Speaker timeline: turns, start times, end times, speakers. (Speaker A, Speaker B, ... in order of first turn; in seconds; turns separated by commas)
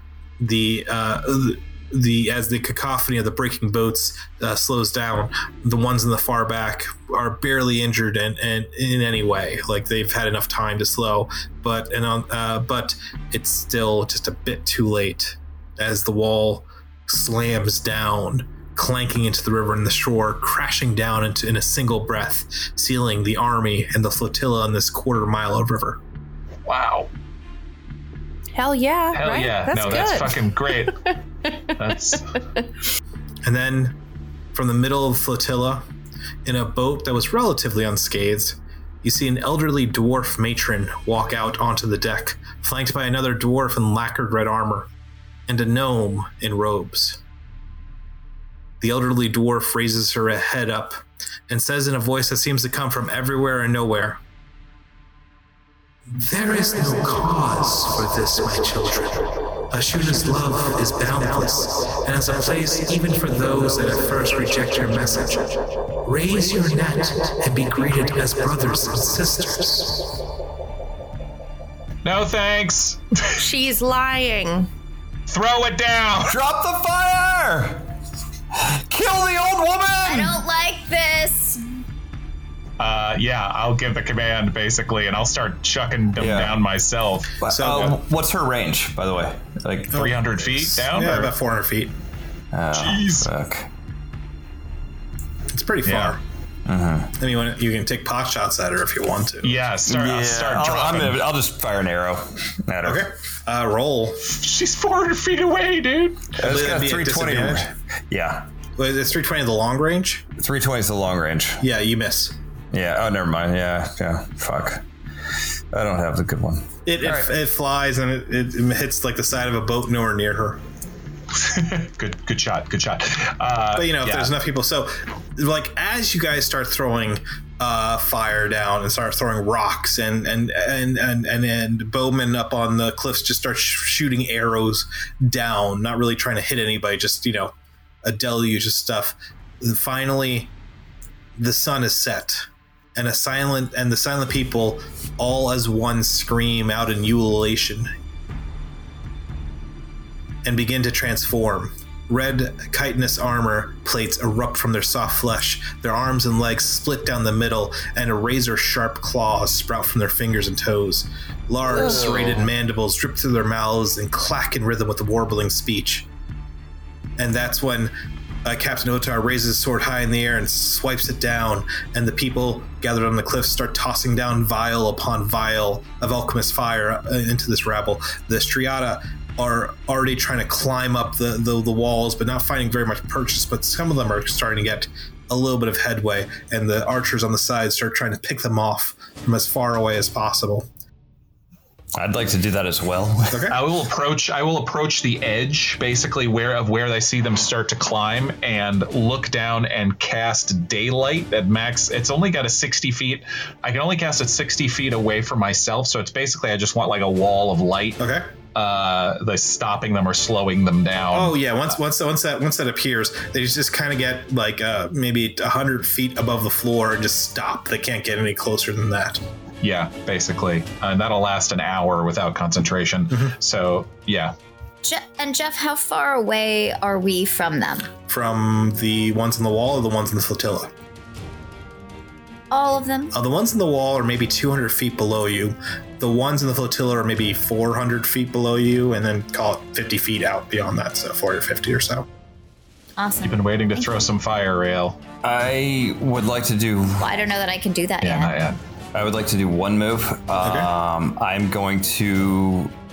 Speaker A: 0.4-26.0, Speaker B: 26.7-27.1, Speaker C: 28.6-31.7, Speaker B: 29.1-31.1, Speaker B: 31.8-32.4, Speaker A: 33.5-34.0, Speaker A: 34.5-35.9, Speaker A: 36.5-44.9, Speaker A: 45.5-47.2, Speaker A: 48.8-54.2, Speaker A: 56.1-70.2, Speaker B: 72.0-73.4, Speaker C: 73.4-74.7, Speaker B: 75.3-76.4, Speaker D: 76.3-77.9, Speaker D: 78.5-80.4, Speaker E: 80.0-81.6, Speaker B: 82.8-87.4, Speaker D: 86.2-86.6, Speaker D: 87.4-90.1, Speaker A: 87.5-88.0, Speaker A: 89.9-91.9, Speaker B: 89.9-91.3, Speaker D: 92.5-93.7, Speaker B: 92.7-93.3, Speaker A: 95.5-96.2, Speaker B: 95.8-96.2, Speaker D: 96.7-97.2, Speaker A: 97.2-99.6, Speaker B: 99.4-101.2, Speaker D: 99.8-103.1, Speaker A: 102.8-104.2, Speaker B: 104.2-106.4, Speaker D: 106.4-108.5, Speaker A: 106.4-107.7, Speaker A: 108.8-110.3, Speaker D: 110.4-111.6, Speaker A: 111.6-112.3, Speaker D: 112.7-114.8, Speaker D: 115.7-117.3, Speaker A: 116.9-120.6, Speaker B: 121.4-124.3, Speaker A: 123.8-137.5, Speaker A: 138.1-140.5, Speaker A: 141.4-147.9, Speaker A: 150.4-166.1, Speaker D: 161.7-162.5, Speaker A: 167.2-167.9, Speaker A: 168.4-190.7, Speaker D: 192.0-193.5, Speaker A: 193.3-193.6, Speaker B: 193.5-208.0, Speaker A: 208.0-208.3, Speaker B: 208.5-211.8, Speaker A: 211.1-219.2, Speaker B: 219.6-224.3, Speaker E: 224.8-227.9, Speaker A: 228.1-230.7, Speaker E: 232.5-233.1, Speaker A: 233.1-242.1, Speaker E: 243.0-243.9, Speaker B: 243.2-245.0, Speaker D: 245.2-247.1, Speaker E: 247.0-248.4, Speaker B: 248.0-248.6, Speaker D: 248.9-252.7, Speaker A: 250.4-250.7